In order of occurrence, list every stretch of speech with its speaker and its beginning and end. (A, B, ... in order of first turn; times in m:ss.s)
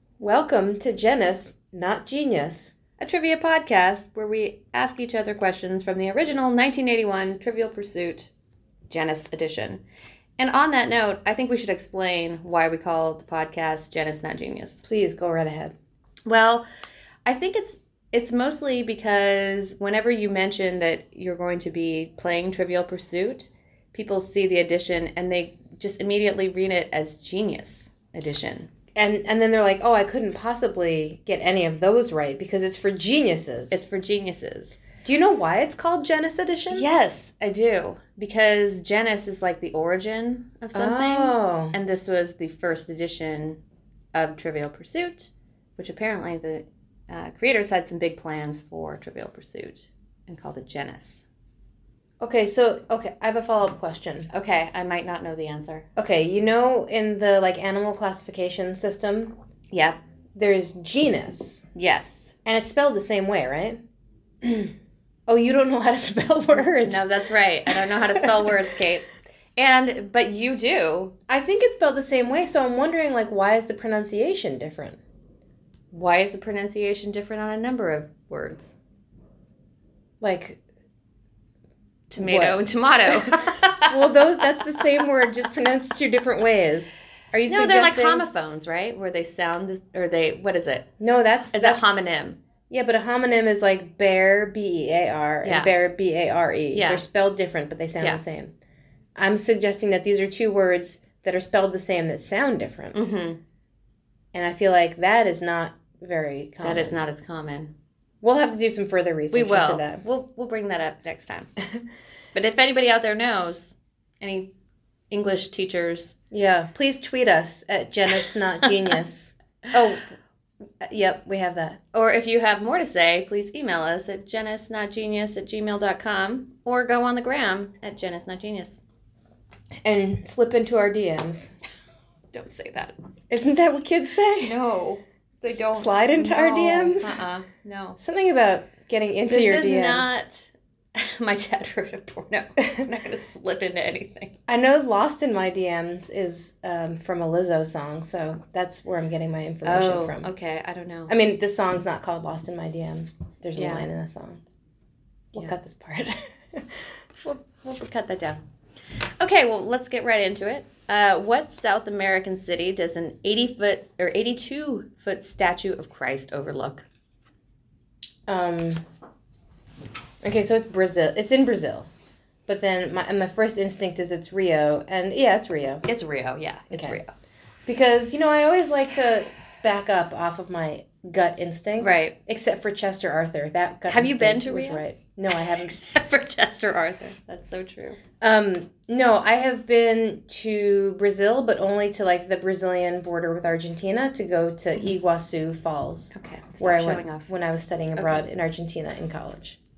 0:00.2-0:02.8 A
0:03.0-0:08.3 B
0:08.9-0:09.8 B
0:10.4-0:14.8 B
0:14.8-0:15.8 A
0:16.3-0:16.6 B
0:17.2-0:28.7 B
0:29.0-0:33.9 A
0:33.7-0:34.8 B
0:35.0-0:36.9 A
0:36.7-0:43.6 B
0:40.7-0:41.8 A
0:44.1-0:51.2 B
0:52.2-0:54.3 A
0:54.3-0:55.9 B
0:56.0-0:59.3 A
0:59.7-1:00.0 B
1:00.4-1:01.6 A
1:01.8-1:02.4 B
1:02.4-1:03.8 A
1:04.4-1:04.7 A
1:05.3-1:07.0 A
1:06.8-1:11.2 B
1:07.9-1:08.6 A
1:11.3-1:15.0 A
1:15.9-1:18.8 B
1:20.2-1:20.6 A
1:22.1-1:24.6 B
1:22.2-1:28.3 A
1:27.5-1:30.9 B
1:31.0-1:31.9 A
1:31.5-1:32.4 B
1:32.7-1:38.5 A
1:35.4-1:35.7 B
1:36.7-1:37.0 B
1:39.2-1:43.0 A
1:42.9-1:43.4 B
1:44.3-1:47.0 A
1:46.6-1:47.7 B
1:48.2-1:50.0 A
1:49.3-1:51.5 B
1:52.3-1:54.5 B
1:55.1-1:56.2 B
1:56.3-2:00.1 A
2:00.8-2:01.8 A
2:01.9-2:08.8 B
2:09.8-2:11.5 A
2:12.3-2:12.9 B
2:13.3-2:14.6 A
2:14.4-2:18.0 B
2:15.5-2:17.2 A
2:18.0-2:20.2 A
2:19.3-2:24.4 B
2:24.5-2:30.3 A
2:29.6-2:31.1 B
2:31.1-2:34.4 A
2:33.6-2:33.9 B
2:35.3-2:36.8 A
2:37.2-2:38.4 B
2:39.2-2:46.9 B
2:48.3-2:48.8 A
2:50.2-2:51.9 A
2:52.5-2:55.8 A
2:55.9-2:57.1 B
2:56.7-2:57.0 A
2:57.7-3:05.8 A
3:01.8-3:02.2 B
3:03.9-3:04.8 B
3:05.4-3:08.0 B
3:08.2-3:19.6 A
3:16.1-3:17.3 B
3:18.0-3:18.2 B